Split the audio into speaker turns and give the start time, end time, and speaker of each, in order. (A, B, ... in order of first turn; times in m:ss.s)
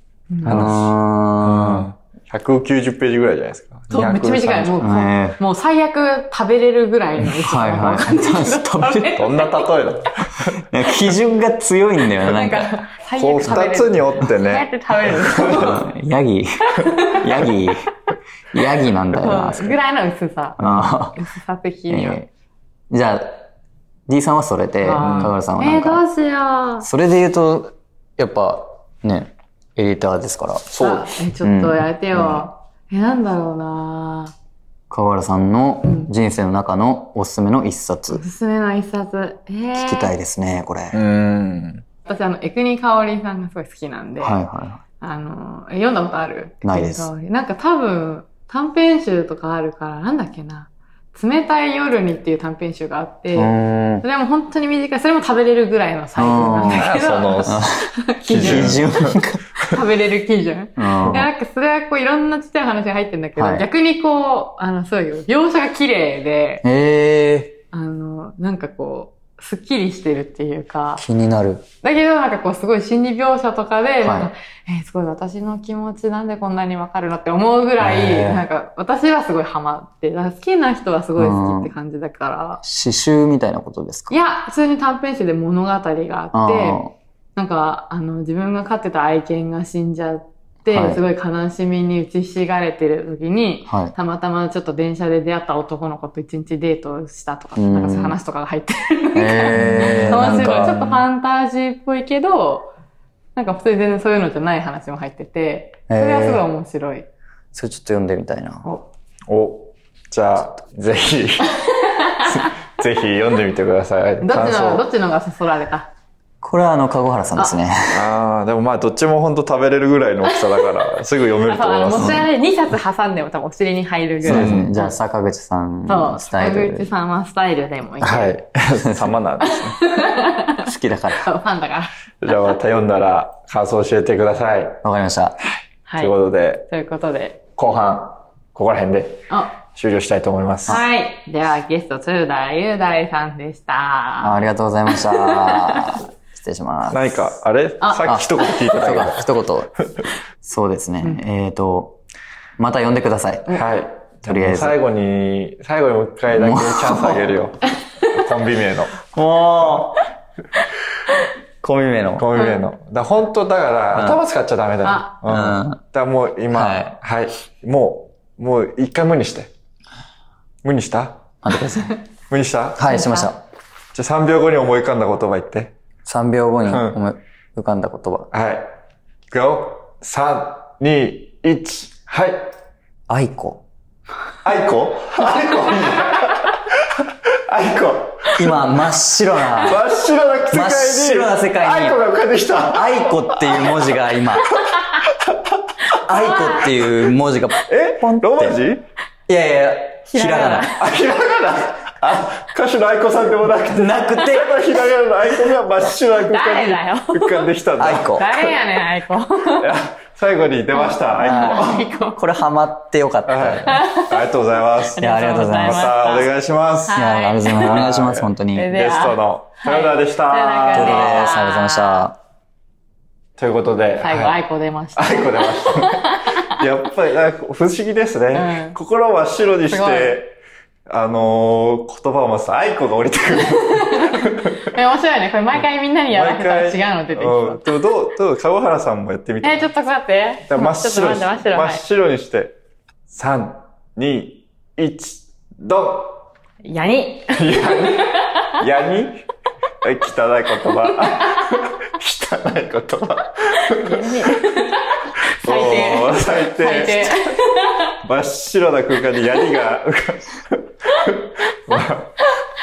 0:00.3-0:00.7 A
0:00.4-0:01.8 B
0:00.4-0:04.8 C
0:03.9-0:09.7 A
0:04.8-0:05.4 B
0:07.2-0:09.2 B
0:09.2-0:10.6 C
0:10.6-0:12.7 B
0:12.2-0:15.9 A
0:13.2-0:15.8 C
0:15.4-0:17.9 B
0:16.8-0:17.2 A
0:18.5-0:19.8 B
0:19.1-0:22.2 A
0:20.6-0:21.2 B
0:21.9-0:22.3 B
0:22.9-0:23.5 B
0:24.1-0:26.0 B
0:24.8-0:26.9 A
0:25.0-0:25.3 C
0:26.8-0:30.7 B
0:30.7-0:31.1 C
0:30.8-0:34.3 A
0:31.4-0:31.9 B
0:34.9-0:38.2 B
0:38.1-0:40.1 A
0:39.7-0:41.0 B
0:40.9-0:41.8 C
0:42.0-0:44.4 A
0:44.2-0:44.8 B
0:45.0-0:58.8 A
0:46.6-0:47.1 B
0:53.3-0:54.0 B
0:56.2-0:56.9 B
0:56.6-0:57.6 C
0:57.4-0:59.4 B
0:58.2-0:59.7 C
0:59.6-1:06.6 A
1:00.8-1:01.3 B
1:03.4-1:03.6 B
1:06.6-1:07.6 B
1:07.7-1:11.0 A
1:11.0-1:11.6 B
1:11.8-1:22.6 A
1:14.0-1:14.3 B
1:17.8-1:18.4 B
1:21.2-1:21.7 B
1:22.6-1:24.2 B
1:24.1-1:26.8 A
1:26.3-1:26.9 B
1:27.4-1:42.7 A
1:30.7-1:31.0 B
1:33.7-1:33.9 B
1:37.6-1:38.2 B
1:39.1-1:41.0 B
1:39.6-1:40.8 C
1:43.3-1:47.0 A
1:45.9-1:46.4 B
1:47.5-1:48.7 B
1:49.3-1:51.6 C
1:51.5-1:52.5 A
1:52.2-1:54.8 C
1:54.2-1:55.9 A
1:56.4-1:58.1 B
1:57.9-2:02.3 C
2:01.4-2:04.9 A
2:04.2-2:06.9 B
2:04.2-2:04.7 C
2:05.9-2:08.4 A
2:08.0-2:09.8 C
2:09.4-2:10.7 A
2:10.6-2:11.3 B
2:11.2-2:11.9 A
2:12.2-2:14.8 C
2:14.8-2:15.4 B
2:15.9-2:16.1 A
2:16.0-2:16.7 C
2:16.7-2:17.4 A
2:17.6-2:20.8 C
2:19.3-2:19.6 A
2:20.7-2:26.0 A
2:24.2-2:27.3 B
2:26.9-2:29.3 C
2:27.8-2:28.7 A
2:28.0-2:29.7 B
2:30.4-2:32.0 B
2:32.6-2:33.6 B
2:33.5-2:40.0 C
2:34.2-2:34.8 B
2:36.3-2:37.3 B
2:39.3-2:39.8 B
2:41.6-2:42.3 B
2:42.2-2:49.5 C
2:42.3-2:42.6 A
2:43.9-2:44.2 B
2:44.8-2:45.2 A
2:45.2-2:45.8 B
2:46.5-2:47.0 B
2:50.6-2:51.2 C
2:51.4-2:51.9 B
2:52.3-2:52.9 C
2:52.8-2:53.4 B
2:52.9-2:53.3 A
2:53.9-2:55.7 C
2:56.0-2:58.3 B
2:56.7-2:57.0 C
2:58.3-2:58.7 C
2:59.3-3:02.4 C
3:03.1-3:03.6 B
3:04.4-3:06.9 C
3:07.5-3:08.6 C
3:08.4-3:09.8 B
3:09.6-3:13.8 C
3:10.5-3:12.0 B
3:12.7-3:14.5 B
3:14.6-3:15.4 C
3:16.0-3:18.6 B
3:16.2-3:16.6 A
3:17.7-3:18.8 C
3:19.3-3:20.7 B
3:20.1-3:20.8 A
3:20.8-3:28.5 C
3:23.7-3:24.6 B
3:26.2-3:27.4 A
3:27.8-3:28.4 B
3:28.1-3:29.7 A
3:29.6-3:31.8 C
3:30.7-3:32.2 A
3:31.2-3:33.8 B
3:33.3-3:41.2 C
3:33.6-3:34.3 A
3:34.9-3:36.3 A
3:35.0-3:35.9 B
3:36.9-3:37.8 A
3:36.9-3:38.7 B
3:38.5-3:42.0 A
3:40.7-3:42.2 B
3:43.4-3:44.4 C
3:44.0-3:46.5 A
3:45.0-3:50.3 C
3:48.3-3:48.8 A
3:49.7-3:50.2 A
3:50.9-3:54.7 C
3:53.4-3:57.6 A
3:56.1-3:59.7 C
3:59.4-4:01.8 A
4:00.5-4:02.6 C
4:03.1-4:06.2 C
4:06.6-4:08.5 A
4:07.3-4:09.2 C
4:09.8-4:14.4 C
4:13.6-4:17.9 A
4:15.4-4:17.4 C
4:18.0-4:22.2 C